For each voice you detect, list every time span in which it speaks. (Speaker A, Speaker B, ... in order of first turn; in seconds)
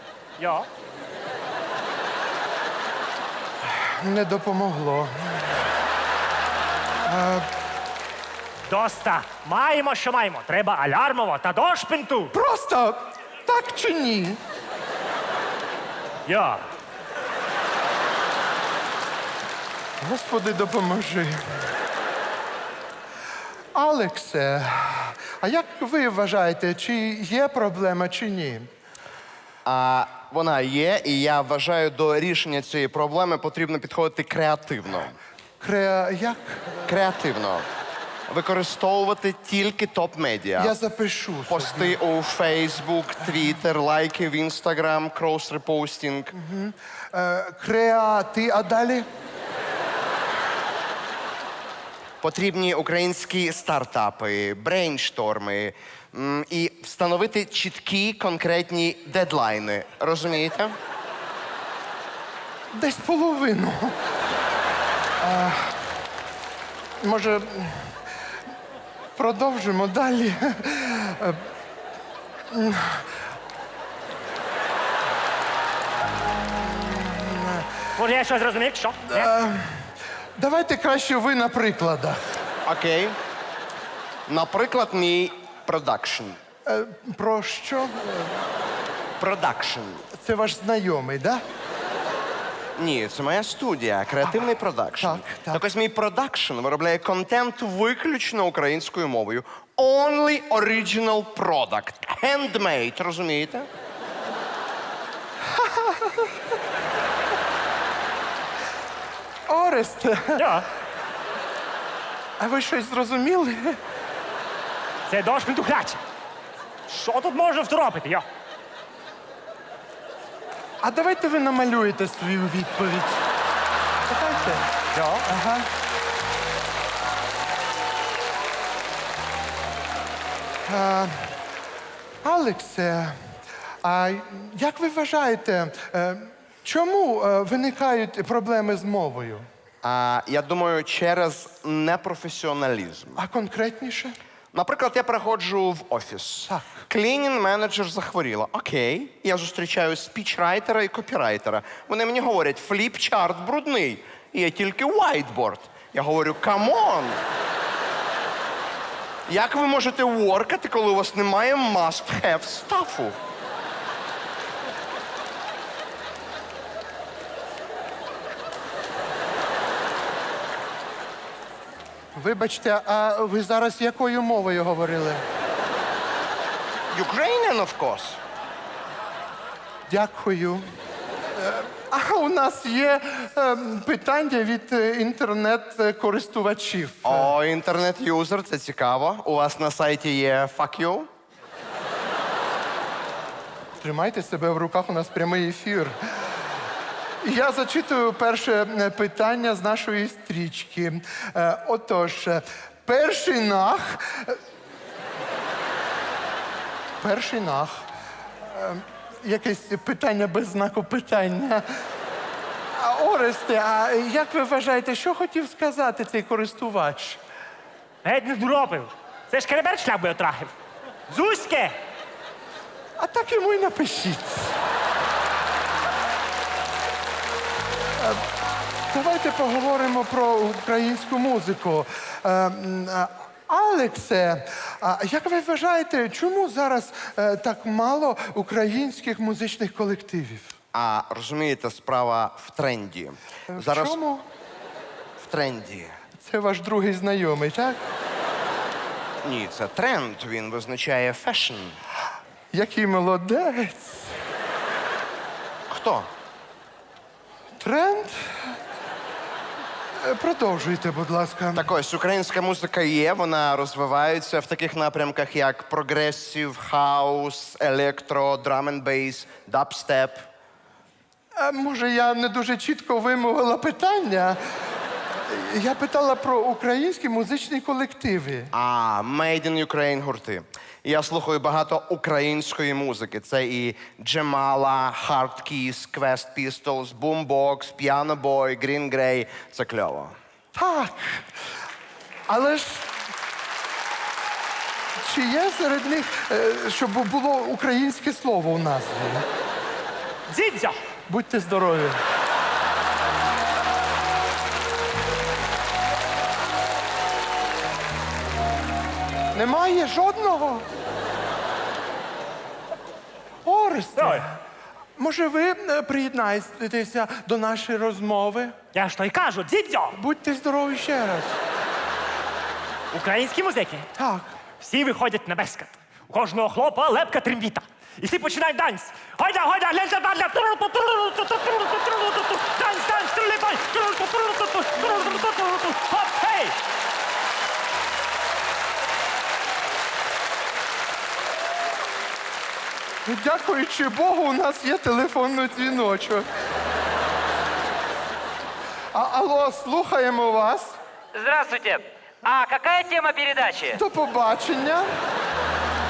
Speaker A: 0.4-0.7, 8.7-12.3, 16.2-16.6, 78.0-79.3, 110.3-110.7, 115.1-116.0, 116.9-118.2, 124.9-125.2, 218.0-220.5, 221.1-221.7, 300.3-300.8, 313.9-314.2, 318.7-320.0, 322.9-323.9, 324.6-336.5
Speaker B: 3.8-5.5, 7.0-7.5, 12.3-14.4, 20.0-21.4, 23.7-28.7, 35.6-37.0, 40.5-42.0, 46.3-49.0, 62.7-64.0, 65.2-65.9, 67.0-68.0, 69.2-71.4, 72.5-73.1, 76.6-77.7, 79.1-82.4, 86.7-88.4, 90.1-91.4, 95.0-95.6, 105.5-106.3, 109.5-110.4, 112.4-113.8, 120.8-123.2, 124.1-124.7, 125.2-125.7, 130.6-131.3, 132.2-133.1, 133.8-139.4, 143.2-144.2, 146.4-146.8, 172.1-175.2, 179.9-180.6, 181.3-187.3, 193.8-195.9, 197.2-204.4, 207.0-207.8, 208.4-211.6, 212.7-217.2, 223.0-224.5, 228.9-240.5, 243.5-244.2, 246.2-247.8, 252.5-254.1, 257.6-258.5, 260.0-261.7, 271.4-274.4, 275.1-278.5, 290.5-291.2, 292.3-292.9, 295.0-299.2, 301.1-302.0, 309.3-310.6, 313.4-314.4, 315.0-318.6, 319.9-321.4, 324.0-324.3, 343.0-346.3, 348.9-350.8, 353.7-354.9
Speaker C: 29.6-35.1, 36.9-37.7, 38.3-40.7, 41.5-46.3, 52.2-60.7, 82.7-83.2, 84.3-86.4, 89.2-90.0, 92.8-103.7, 139.8-143.2, 144.5-157.2, 159.3-163.2, 176.9-178.2, 187.0-191.1, 240.7-244.0, 245.2-245.9, 249.2-251.8, 255.7-256.1, 261.6-270.2, 278.5-290.1
Speaker D: 351.1-353.8